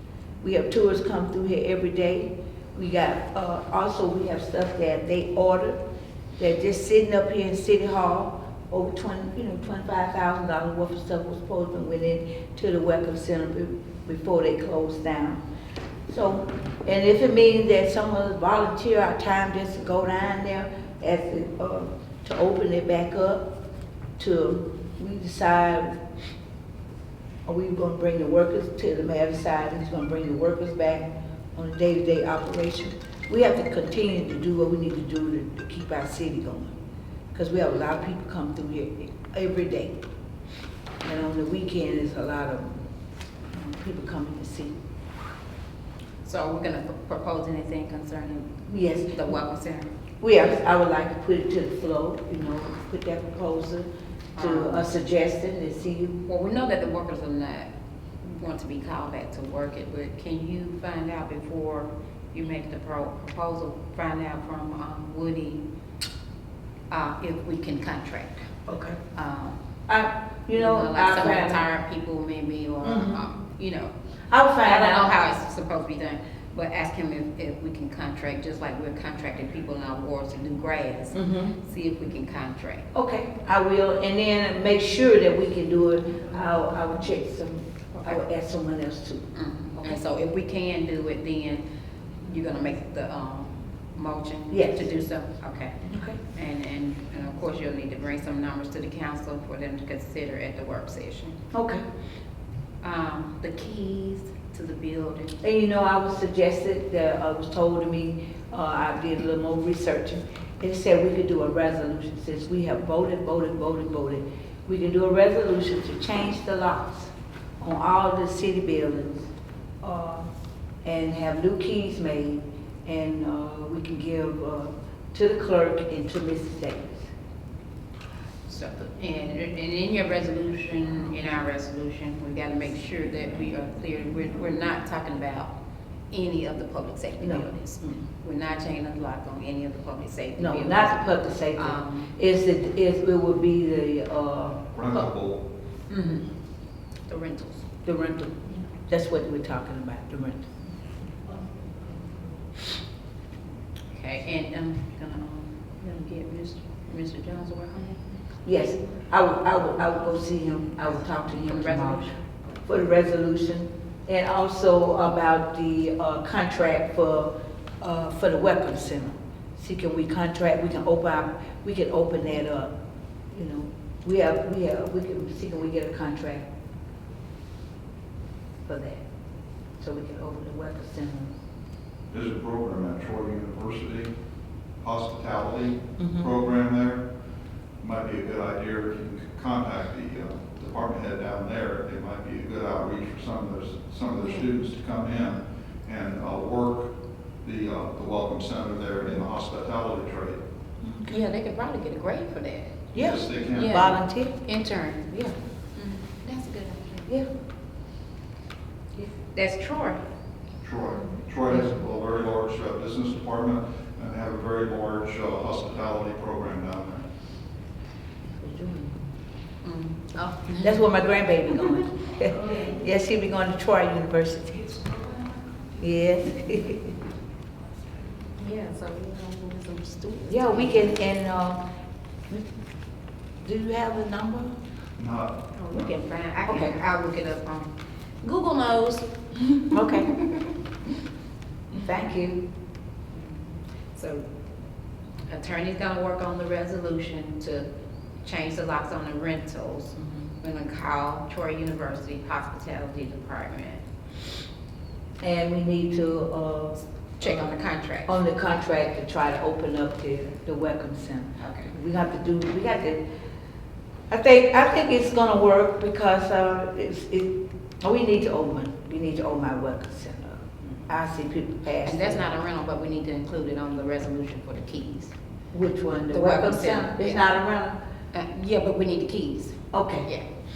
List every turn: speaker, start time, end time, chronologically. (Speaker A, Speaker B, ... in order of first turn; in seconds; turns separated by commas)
Speaker A: 0.4-5.8, Speaker A: 6.4-15.4, Speaker A: 16.1-23.5, Speaker A: 24.2-26.0, Speaker A: 27.4-36.7, Speaker A: 37.3-40.0, Speaker A: 41.0-42.8, Speaker A: 43.5-44.7, Speaker B: 46.2-49.9, Speaker A: 48.7-49.2, Speaker A: 50.2-56.2, Speaker B: 54.4-54.9, Speaker B: 56.2-57.7, Speaker B: 58.2-65.6, Speaker B: 66.9-68.5, Speaker A: 68.7-69.0, Speaker B: 69.1-69.6, Speaker A: 69.9-71.6, Speaker B: 70.5-73.9, Speaker A: 72.8-73.2, Speaker A: 74.3-75.1, Speaker B: 74.6-82.8, Speaker A: 81.1-81.5, Speaker A: 82.9-89.2, Speaker B: 89.3-91.6, Speaker B: 92.2-95.8, Speaker A: 94.5-94.9, Speaker A: 95.9-96.2, Speaker B: 96.3-101.4, Speaker A: 101.5-101.8, Speaker B: 102.8-105.3, Speaker A: 105.4-119.3, Speaker A: 119.8-120.3, Speaker A: 120.8-127.1, Speaker B: 128.5-135.5, Speaker B: 136.1-142.1, Speaker A: 137.2-138.0, Speaker A: 140.4-145.1, Speaker C: 144.7-145.4, Speaker B: 145.9-146.2, Speaker B: 147.1-147.7, Speaker A: 147.8-150.5, Speaker B: 153.9-158.0, Speaker A: 158.4-162.1, Speaker B: 161.4-162.2, Speaker A: 162.7-172.7, Speaker A: 173.3-176.5, Speaker A: 178.7-179.0, Speaker A: 179.8-181.3, Speaker C: 182.1-184.1, Speaker C: 184.8-187.0, Speaker A: 186.0-186.3, Speaker C: 187.8-196.9, Speaker C: 197.4-200.4, Speaker A: 200.8-201.2, Speaker B: 201.1-202.9, Speaker A: 202.9-204.4, Speaker C: 202.9-203.8, Speaker B: 203.5-205.2, Speaker B: 205.7-207.1, Speaker B: 209.1-210.0, Speaker C: 210.6-217.0, Speaker A: 218.4-219.0, Speaker B: 219.6-220.9, Speaker A: 220.6-224.8, Speaker A: 225.8-226.9, Speaker B: 228.4-230.9, Speaker A: 230.3-231.6, Speaker A: 233.4-234.5, Speaker C: 235.0-235.7, Speaker B: 235.6-237.7, Speaker A: 236.5-236.7, Speaker B: 238.2-240.2, Speaker A: 239.7-240.3, Speaker A: 241.7-242.4, Speaker B: 243.1-244.2, Speaker B: 245.3-247.7, Speaker B: 248.2-253.8, Speaker A: 249.9-250.3, Speaker A: 255.2-257.5, Speaker B: 257.2-258.1, Speaker A: 258.1-263.0, Speaker B: 261.4-261.7, Speaker A: 264.1-272.2, Speaker B: 271.8-275.1, Speaker A: 275.5-277.8, Speaker B: 276.1-277.4, Speaker B: 278.1-280.2, Speaker A: 279.7-280.1